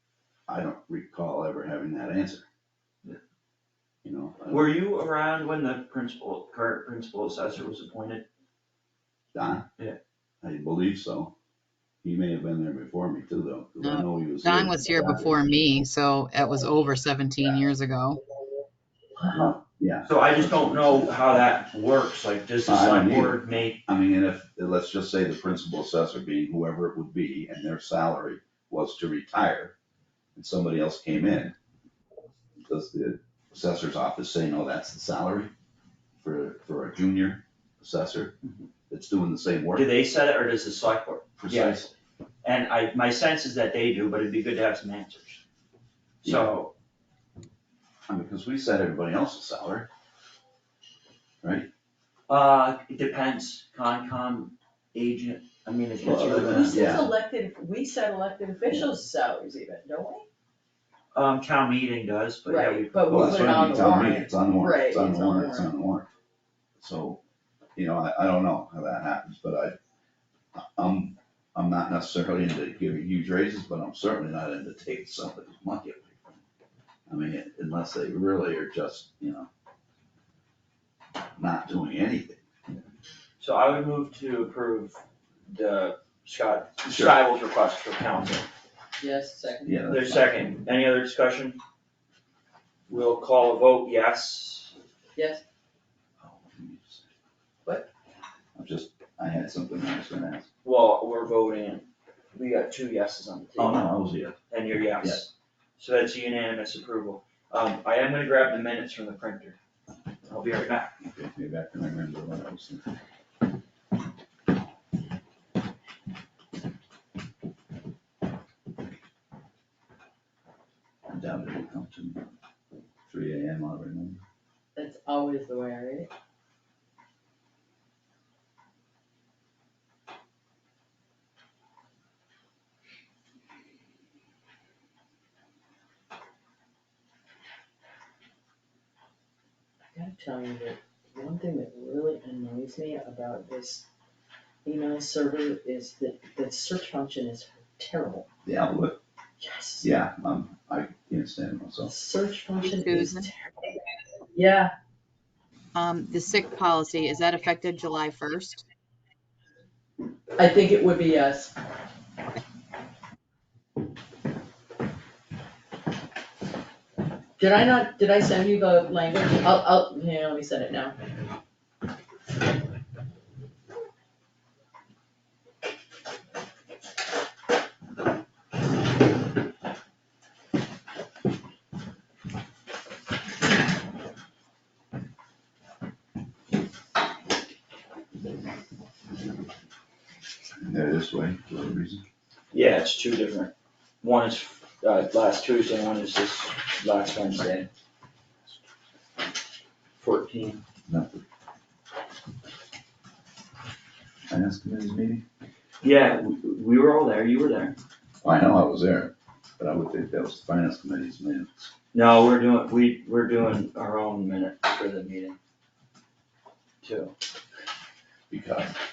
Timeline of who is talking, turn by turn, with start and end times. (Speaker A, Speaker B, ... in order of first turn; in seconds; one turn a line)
Speaker A: 0.5-2.5
Speaker A: 4.0-4.7
Speaker B: 4.5-8.2
Speaker A: 9.3-9.7
Speaker A: 10.4-11.3
Speaker A: 12.0-15.4
Speaker C: 13.8-18.2
Speaker A: 19.3-21.2
Speaker B: 20.0-23.8
Speaker A: 22.6-29.7
Speaker A: 30.3-31.5
Speaker A: 32.6-35.5
Speaker A: 36.2-38.3
Speaker A: 38.9-39.9
Speaker B: 39.7-41.8
Speaker A: 41.4-41.9
Speaker B: 42.4-45.4
Speaker B: 46.2-46.7
Speaker A: 48.1-49.9
Speaker A: 51.4-51.7
Speaker B: 52.3-57.0
Speaker A: 56.0-57.1
Speaker D: 56.2-60.2
Speaker B: 61.1-63.9
Speaker D: 62.5-65.7
Speaker A: 63.1-66.1
Speaker A: 66.8-67.2
Speaker A: 67.8-69.8
Speaker A: 70.5-76.4
Speaker A: 77.1-79.5
Speaker A: 81.4-82.4
Speaker B: 83.4-88.5
Speaker A: 86.9-87.1
Speaker D: 89.0-89.8
Speaker A: 89.6-90.3
Speaker B: 89.8-91.6
Speaker B: 92.9-94.7
Speaker D: 95.2-95.4
Speaker A: 96.2-97.1
Speaker A: 98.5-100.5
Speaker B: 100.6-103.9
Speaker A: 103.6-104.4
Speaker B: 104.5-109.6
Speaker B: 110.3-110.9
Speaker A: 111.0-112.8
Speaker A: 121.1-122.2
Speaker A: 123.1-124.2
Speaker D: 124.8-126.1
Speaker D: 139.9-143.8
Speaker D: 144.6-148.2
Speaker A: 148.4-149.0
Speaker D: 149.4-149.9
Speaker A: 149.8-151.9
Speaker D: 151.8-153.7
Speaker C: 152.6-153.3
Speaker D: 154.3-154.7
Speaker C: 155.7-158.6
Speaker D: 160.3-161.5
Speaker D: 167.4-170.9
Speaker A: 190.6-192.0
Speaker B: 192.5-193.5
Speaker B: 194.0-197.7
Speaker B: 200.0-200.6
Speaker A: 200.8-201.2
Speaker A: 204.3-205.2
Speaker B: 205.8-207.8
Speaker A: 208.2-211.7
Speaker B: 211.9-215.3
Speaker B: 216.8-217.1
Speaker A: 218.3-218.7